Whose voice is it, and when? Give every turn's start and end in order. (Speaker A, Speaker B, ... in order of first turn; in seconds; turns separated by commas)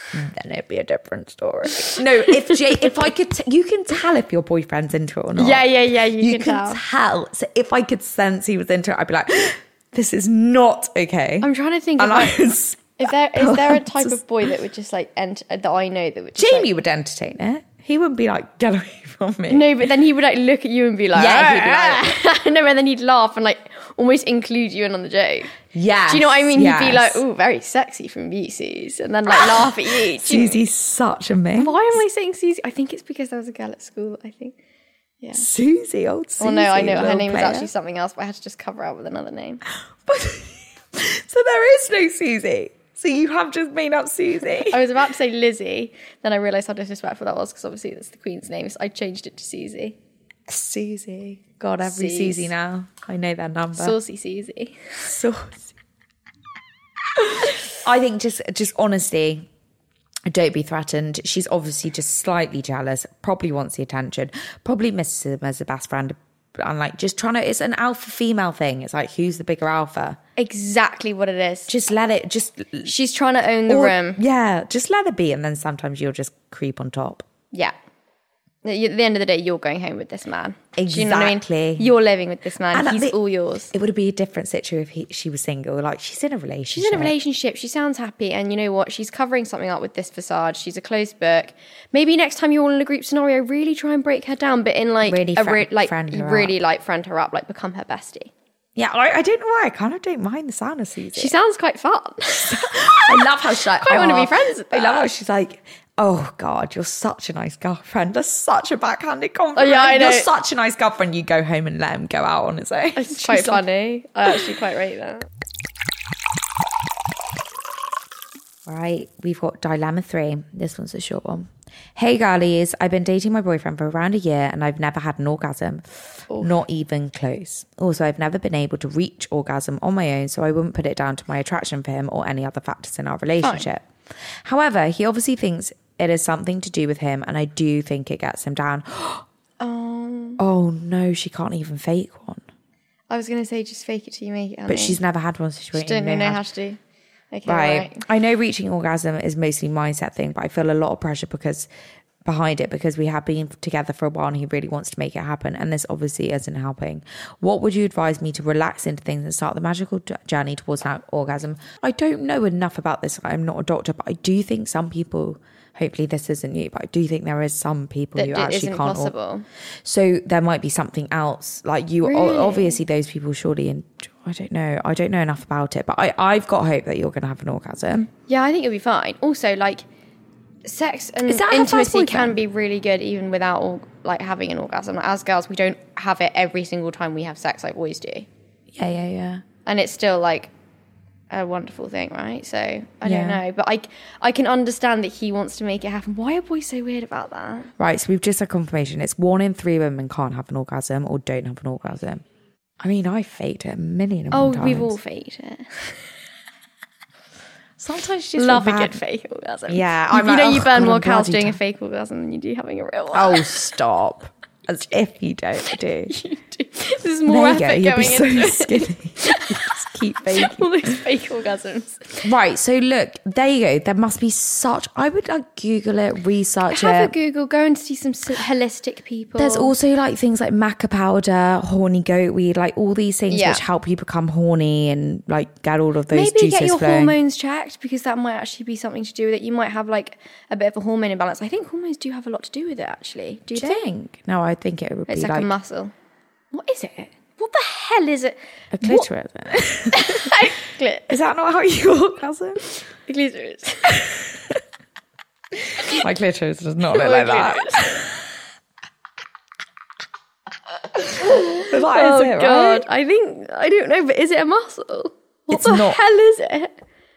Speaker A: 0.1-14.5, Speaker B: 1.8-2.9, Speaker B: 5.3-6.8, Speaker B: 11.4-12.4, Speaker B: 12.9-16.7, Speaker A: 16.4-19.9, Speaker B: 19.5-25.6, Speaker A: 21.1-22.1, Speaker A: 25.7-27.2, Speaker B: 26.1-30.6, Speaker A: 29.3-32.0, Speaker B: 31.6-34.5, Speaker B: 35.2-35.5, Speaker A: 35.3-37.7, Speaker B: 36.4-39.6, Speaker A: 40.0-44.9, Speaker B: 44.6-50.0, Speaker A: 50.5-54.0, Speaker B: 51.8-52.5, Speaker B: 53.7-54.9, Speaker A: 55.0-55.7, Speaker A: 57.2-59.5, Speaker A: 60.2-70.2, Speaker B: 70.4-71.7, Speaker A: 71.7-72.9, Speaker B: 72.8-74.2, Speaker A: 73.7-77.2, Speaker B: 78.6-83.7, Speaker A: 80.8-81.9, Speaker A: 82.7-87.1, Speaker B: 86.7-98.3, Speaker A: 95.0-96.5, Speaker A: 98.8-101.3, Speaker B: 101.1-105.1, Speaker A: 102.3-113.6, Speaker B: 109.5-110.3, Speaker B: 113.0-115.3, Speaker A: 118.6-133.8, Speaker B: 126.3-126.6, Speaker A: 134.4-139.2, Speaker B: 139.6-140.4, Speaker A: 140.4-142.4, Speaker B: 143.1-145.0, Speaker A: 144.7-146.4, Speaker B: 145.7-146.8, Speaker B: 147.3-148.0, Speaker A: 147.4-151.7, Speaker A: 152.2-169.1, Speaker B: 168.1-169.4, Speaker A: 169.8-178.1, Speaker B: 172.0-172.8, Speaker B: 178.2-179.8, Speaker B: 180.6-188.3, Speaker A: 181.3-182.3, Speaker A: 188.7-189.4, Speaker B: 189.7-190.5, Speaker B: 191.3-197.7, Speaker A: 193.0-193.4, Speaker A: 197.8-202.2, Speaker A: 202.8-205.0, Speaker B: 204.3-206.1, Speaker A: 207.8-209.0, Speaker B: 208.3-213.7, Speaker A: 209.7-211.6, Speaker A: 213.1-216.2, Speaker B: 216.1-222.3, Speaker A: 217.2-221.0, Speaker A: 222.2-227.1, Speaker B: 226.7-229.7, Speaker A: 229.3-237.2, Speaker B: 233.3-233.6, Speaker B: 236.1-243.9, Speaker A: 243.5-245.5, Speaker B: 245.1-245.9, Speaker B: 246.5-249.1, Speaker A: 248.7-250.4, Speaker B: 249.9-251.2, Speaker A: 251.1-252.7, Speaker B: 253.1-254.2, Speaker A: 253.9-254.6, Speaker A: 255.9-258.1, Speaker B: 256.9-258.1, Speaker B: 261.1-266.7, Speaker A: 261.1-262.9, Speaker A: 265.5-266.0